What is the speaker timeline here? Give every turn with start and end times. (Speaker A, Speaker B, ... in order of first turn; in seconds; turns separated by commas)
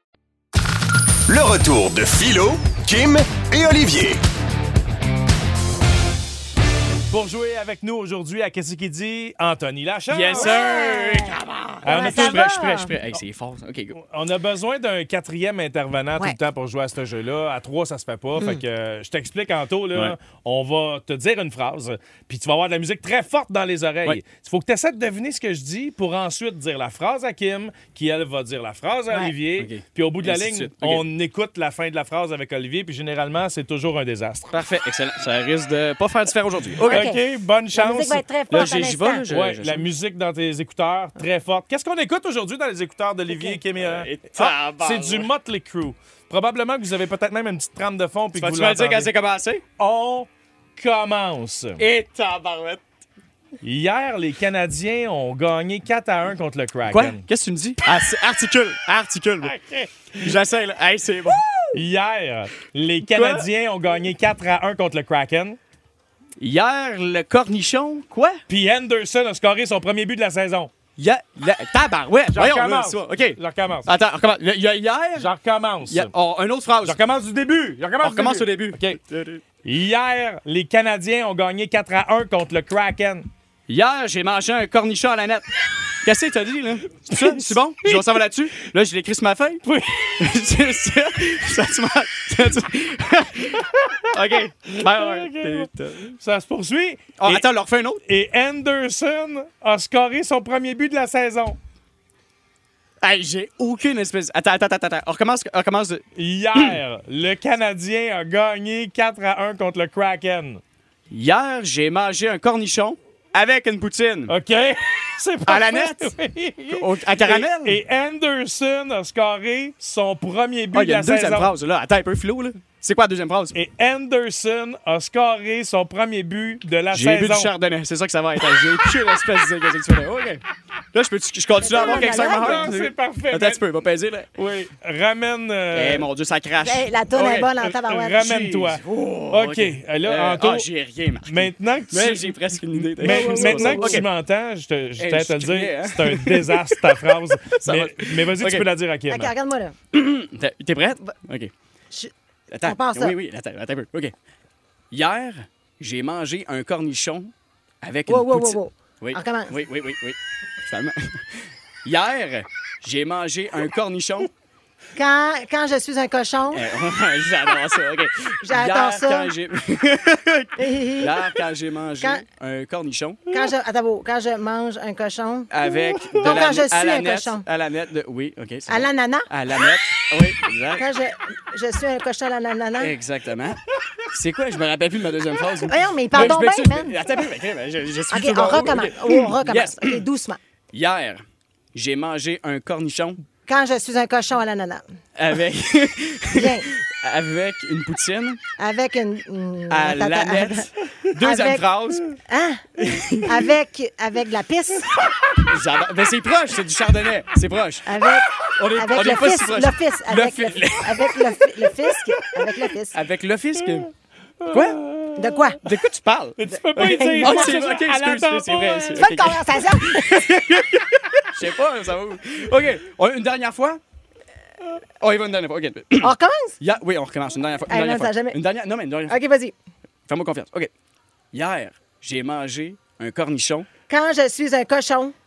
Speaker A: 1.3-4.2, Speaker B: 7.1-10.6, Speaker C: 10.1-14.0, Speaker D: 10.4-12.9, Speaker B: 11.8-12.5, Speaker B: 14.0-34.5, Speaker C: 29.6-31.0, Speaker C: 34.5-37.1, Speaker D: 36.8-37.2, Speaker B: 36.8-38.3, Speaker D: 37.7-39.3, Speaker C: 38.5-39.9, Speaker B: 39.3-49.1, Speaker C: 43.8-45.3, Speaker C: 48.4-49.6, Speaker B: 49.8-51.8, Speaker C: 51.8-52.8, Speaker B: 53.6-57.2, Speaker C: 56.9-59.5, Speaker B: 59.4-60.3, Speaker C: 60.2-61.8, Speaker B: 61.7-65.6, Speaker C: 63.0-63.5, Speaker C: 66.4-68.4, Speaker B: 68.5-70.7, Speaker C: 71.0-75.3, Speaker B: 72.3-73.9, Speaker B: 75.2-76.1, Speaker C: 75.9-77.0, Speaker B: 76.8-79.0, Speaker C: 78.0-79.4, Speaker B: 79.6-83.3, Speaker C: 83.7-85.5, Speaker C: 86.0-96.1, Speaker B: 87.1-88.0, Speaker B: 94.7-97.4, Speaker C: 97.2-98.0, Speaker B: 98.1-101.6, Speaker C: 103.0-106.0, Speaker B: 106.2-110.6, Speaker C: 111.1-114.3, Speaker B: 114.3-121.5, Speaker C: 115.5-116.1, Speaker C: 116.7-117.8, Speaker C: 120.7-123.5, Speaker B: 123.5-127.5, Speaker C: 126.9-130.4, Speaker C: 130.9-134.3, Speaker D: 131.6-132.7, Speaker B: 131.7-133.7, Speaker B: 134.4-136.1, Speaker C: 135.7-137.5, Speaker D: 136.6-138.5, Speaker B: 137.6-140.7, Speaker C: 138.4-144.1, Speaker B: 141.3-142.3, Speaker B: 142.9-149.3, Speaker D: 143.0-143.9, Speaker C: 145.0-148.7, Speaker D: 149.1-149.8, Speaker C: 149.9-151.5, Speaker C: 152.5-154.1, Speaker D: 152.6-153.2, Speaker C: 154.9-157.3, Speaker C: 157.8-164.3, Speaker D: 158.1-159.6, Speaker D: 165.0-166.6, Speaker C: 166.5-173.2, Speaker D: 168.4-169.3, Speaker D: 170.6-171.3, Speaker D: 173.3-175.5, Speaker C: 175.5-180.8, Speaker D: 176.1-177.4, Speaker D: 178.7-179.3, Speaker D: 180.8-182.9, Speaker C: 182.8-183.6, Speaker C: 184.1-190.1, Speaker D: 185.7-187.0, Speaker D: 188.1-190.4, Speaker C: 190.7-191.2, Speaker C: 191.7-193.2, Speaker D: 193.5-194.8, Speaker C: 195.2-198.4, Speaker D: 196.3-196.7, Speaker D: 198.6-200.7, Speaker C: 199.7-202.1, Speaker D: 201.2-201.7, Speaker D: 202.3-202.6, Speaker C: 202.8-203.3, Speaker D: 203.2-204.9, Speaker C: 205.5-211.3, Speaker D: 207.9-213.0, Speaker C: 212.9-213.9, Speaker B: 214.4-215.5, Speaker C: 214.5-214.8, Speaker D: 215.2-215.6, Speaker C: 215.6-223.8, Speaker B: 216.4-219.0, Speaker D: 216.8-217.6, Speaker D: 219.0-220.2, Speaker C: 225.0-229.2, Speaker D: 226.0-226.6, Speaker D: 227.7-228.4, Speaker D: 229.1-229.5, Speaker C: 230.1-230.7, Speaker C: 231.3-233.7, Speaker D: 233.9-235.1